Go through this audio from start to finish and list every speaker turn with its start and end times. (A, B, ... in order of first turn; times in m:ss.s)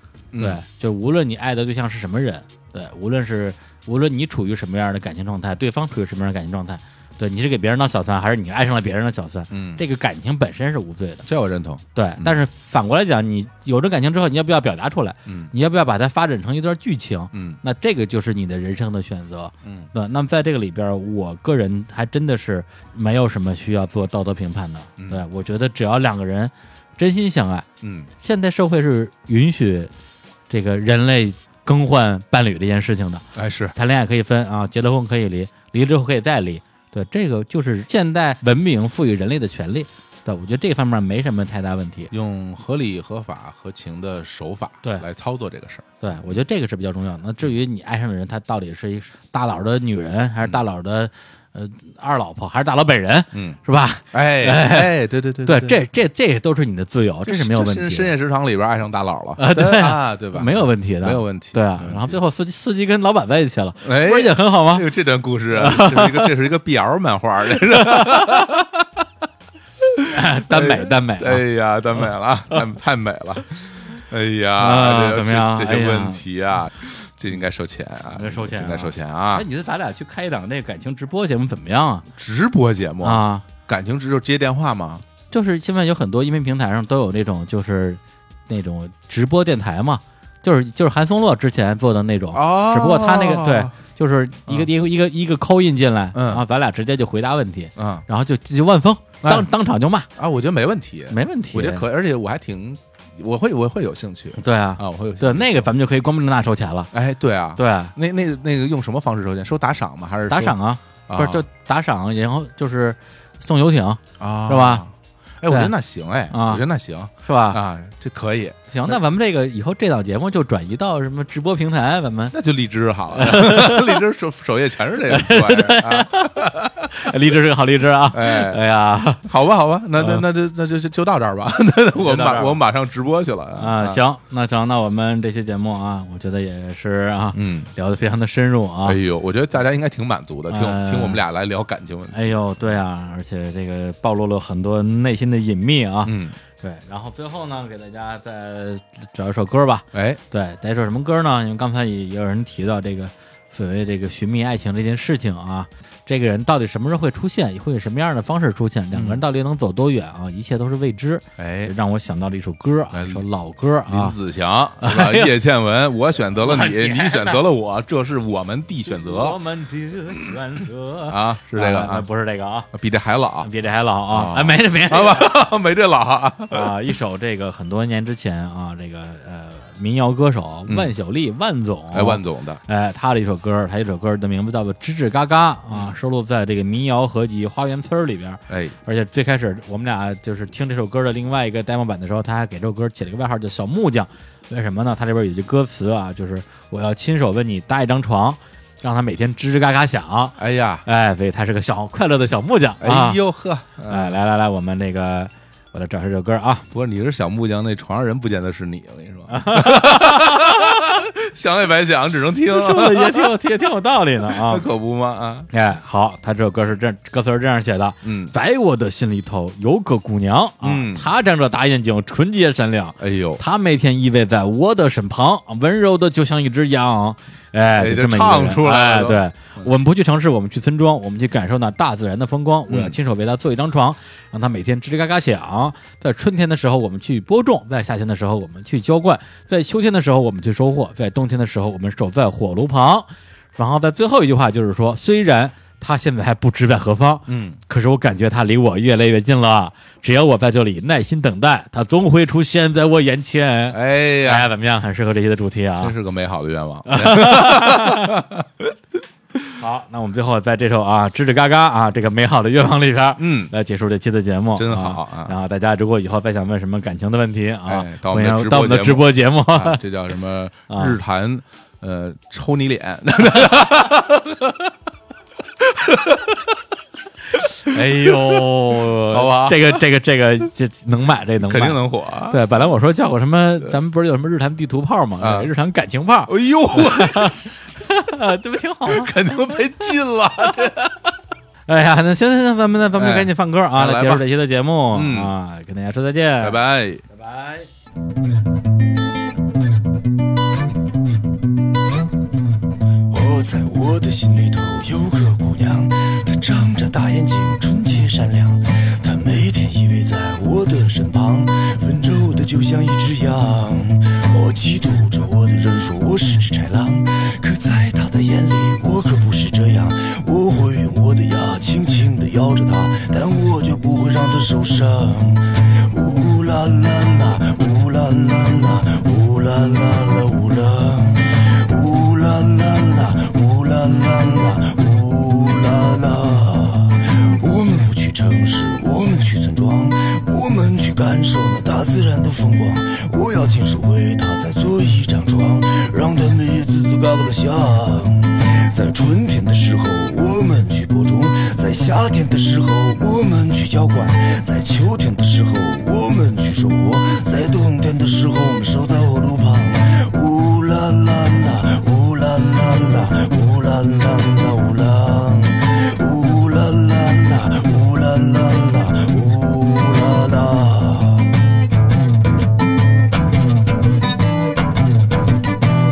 0:00.3-0:00.6 A
0:00.4-0:11.3 B
0:09.5-0:09.8 A
0:11.3-0:12.4 A
0:12.0-0:27.7 B
0:15.3-0:15.5 A
0:17.3-0:17.6 A
0:19.6-0:19.9 A
0:25.0-0:25.2 A
0:27.8-0:28.1 A
0:28.2-0:29.9 B
0:30.5-0:42.1 B
0:33.4-0:33.8 A
0:42.1-0:46.4 A
0:46.0-0:58.1 B
0:53.3-0:53.6 A
0:54.1-0:55.8 A
0:57.3-1:02.2 A
0:59.4-1:04.9 B
1:03.8-1:09.1 A
1:05.5-1:06.3 B
1:07.7-1:08.5 B
1:09.9-1:19.5 A
1:10.1-1:11.4 B
1:14.6-1:16.2 B
1:18.2-1:22.1 B
1:22.2-1:25.0 A
1:23.0-1:23.5 B
1:25.3-1:40.1 B
1:32.3-1:33.7 A
1:36.1-1:36.4 A
1:37.8-1:38.1 A
1:39.2-1:39.5 A
1:40.2-1:45.7 A
1:41.1-1:41.8 B
1:44.4-1:46.9 B
1:46.9-1:50.6 A
1:47.6-1:47.9 B
1:50.3-1:54.9 B
1:51.1-1:51.4 A
1:54.2-1:58.9 A
1:55.5-1:55.7 B
1:56.3-1:56.6 B
1:57.2-1:57.6 B
1:58.7-2:02.4 B
2:02.3-2:07.1 A
2:03.1-2:04.0 B
2:05.1-2:09.3 B
2:08.1-2:08.6 A
2:09.2-2:14.0 A
2:10.0-2:10.2 B
2:12.0-2:12.6 B
2:13.6-2:19.0 B
2:17.3-2:17.7 A
2:18.8-2:22.3 A
2:20.5-2:21.2 B
2:22.1-2:44.2 B
2:26.0-2:26.4 A
2:29.9-2:30.2 A
2:38.9-2:39.2 A
2:41.4-2:41.7 A
2:42.9-2:43.2 A
2:43.9-2:49.4 A
2:44.8-2:45.3 B
2:46.4-2:47.4 B
2:49.0-2:52.7 B
2:51.1-2:52.1 A
2:52.7-2:53.5 A
2:53.4-2:55.3 B
2:54.1-2:56.7 A
2:56.5-3:23.2 B
3:00.7-3:00.9 A
3:01.9-3:02.6 A
3:08.5-3:08.8 A
3:20.4-3:20.8 A
3:22.8-3:24.2 A
3:23.9-3:26.7 B
3:26.7-3:33.4 A
3:29.3-3:30.9 B
3:32.5-3:34.7 B
3:34.3-3:35.5 A
3:35.5-4:16.0 B
3:38.0-3:38.4 A
3:40.6-3:41.1 A
3:43.0-3:43.4 A
3:47.8-3:49.7 A
3:52.7-3:53.0 A
4:07.3-4:07.6 A
4:13.7-4:14.5 A
4:15.8-4:18.8 A
4:16.9-4:18.2 B
4:19.6-4:29.8 B
4:23.2-4:23.5 A
4:24.6-4:25.4 A
4:27.7-4:34.7 A
4:30.7-4:31.0 B
4:35.7-4:36.5 A
4:37.5-4:49.4 B
4:37.7-4:38.4 A
4:39.1-4:39.8 A
4:41.4-4:42.4 A
4:45.2-4:45.5 A
4:46.3-4:47.6 A
4:48.9-4:51.1 A
4:51.7-4:57.7 B
4:53.0-4:54.2 A
4:54.9-4:55.3 A
4:56.4-4:57.0 A
5:03.1-6:11.3 C